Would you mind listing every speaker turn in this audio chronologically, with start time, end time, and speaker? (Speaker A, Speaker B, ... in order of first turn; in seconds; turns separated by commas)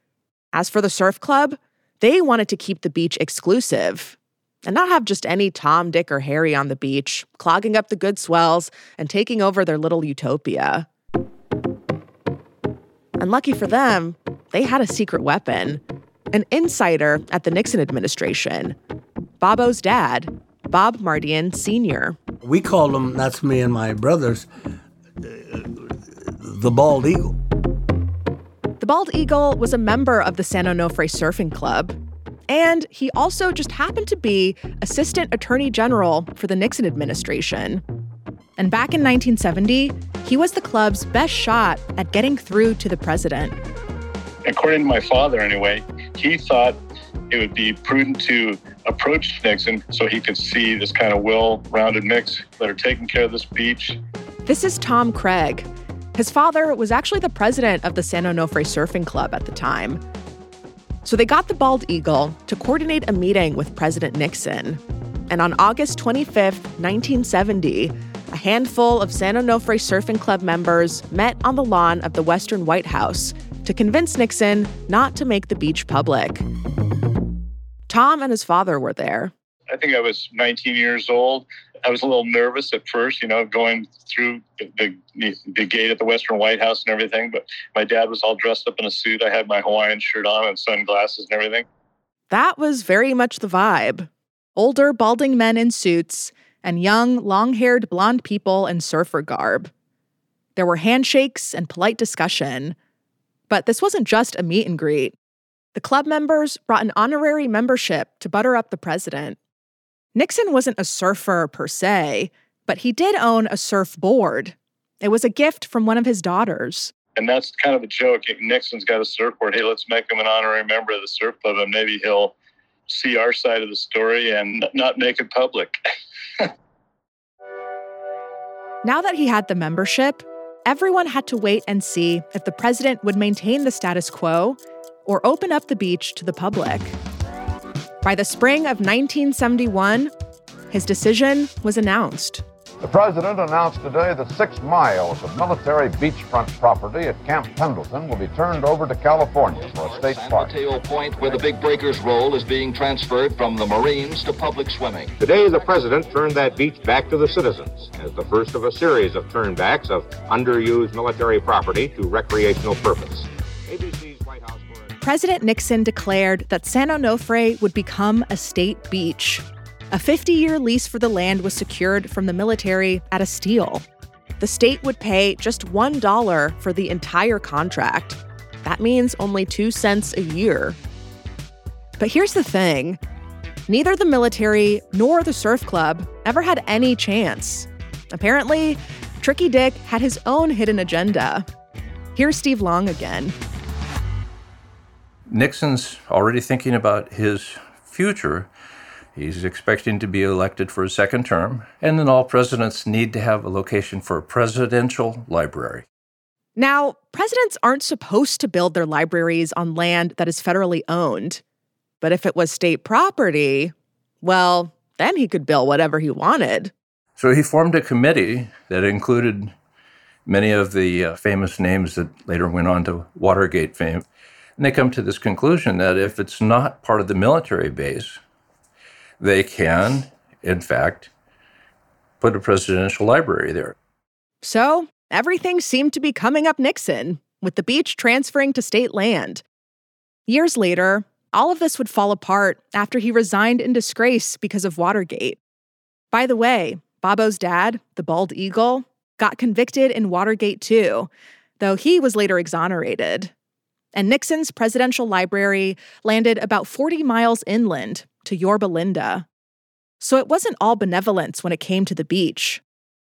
Speaker A: 0.5-10.9, Speaker A: 13.2-18.8, Speaker A: 19.4-22.2, Speaker B: 22.4-24.5, Speaker B: 25.2-27.4, Speaker A: 28.8-32.0, Speaker A: 32.5-37.8, Speaker A: 38.6-43.5, Speaker C: 44.5-46.8, Speaker C: 47.3-54.0, Speaker A: 54.5-60.0, Speaker A: 61.0-76.5, Speaker A: 77.9-79.3, Speaker C: 79.7-91.6, Speaker A: 92.3-99.7, Speaker A: 100.5-102.8, Speaker A: 103.5-105.1, Speaker A: 105.8-109.4, Speaker A: 110.1-116.9, Speaker C: 117.2-122.3, Speaker C: 122.9-125.7, Speaker A: 128.8-136.9, Speaker A: 138.0-140.1, Speaker A: 140.7-142.4, Speaker D: 142.8-150.5, Speaker E: 149.5-155.1, Speaker F: 155.2-164.9, Speaker A: 165.0-173.8, Speaker A: 174.4-180.8, Speaker A: 182.0-183.0, Speaker A: 183.7-191.4, Speaker A: 192.1-193.3, Speaker G: 195.3-198.5, Speaker G: 199.1-205.8, Speaker A: 206.6-211.4, Speaker A: 212.0-216.7, Speaker G: 217.2-219.5, Speaker G: 220.2-224.1, Speaker G: 224.6-228.2, Speaker G: 229.2-231.1, Speaker G: 232.2-233.7, Speaker A: 234.4-239.4, Speaker A: 240.3-245.4, Speaker A: 246.1-251.1, Speaker A: 251.6-253.3, Speaker A: 253.9-259.2, Speaker A: 260.0-262.6